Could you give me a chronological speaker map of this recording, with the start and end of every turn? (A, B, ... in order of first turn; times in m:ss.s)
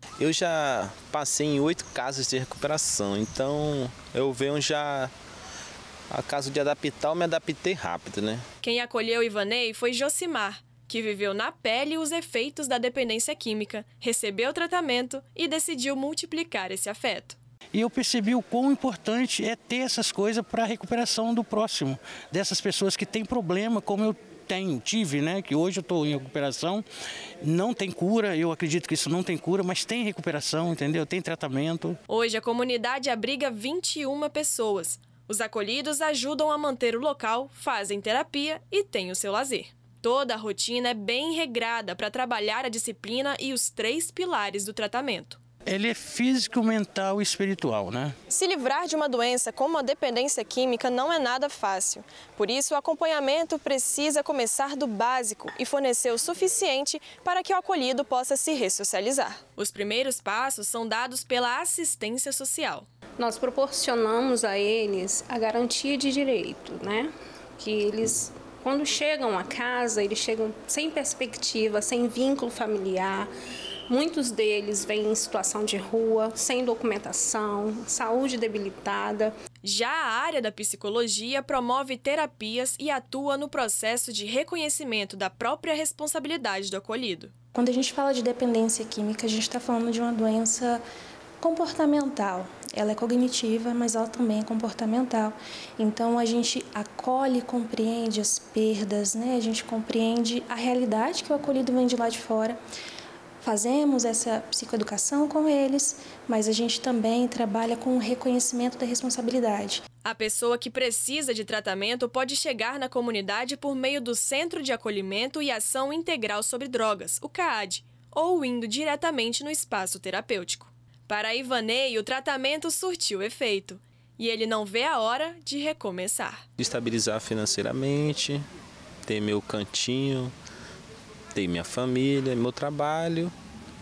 0:00.2-0:05.1 A
0:06.1-0:08.4 A
0:08.6-0:17.4 B
0:17.7-0:26.8 C
0:27.4-0:32.0 C
0:32.1-0:45.4 B
0:45.7-0:48.2 C
0:48.3-1:02.9 B
1:03.2-1:13.3 D
1:13.9-1:19.3 D
1:19.6-1:27.3 B
1:27.5-1:30.8 E
1:31.4-1:42.6 E
1:43.4-1:49.8 E
1:50.0-2:06.5 B
2:06.6-2:08.4 A
2:09.1-2:10.3 A
2:11.3-2:13.3 A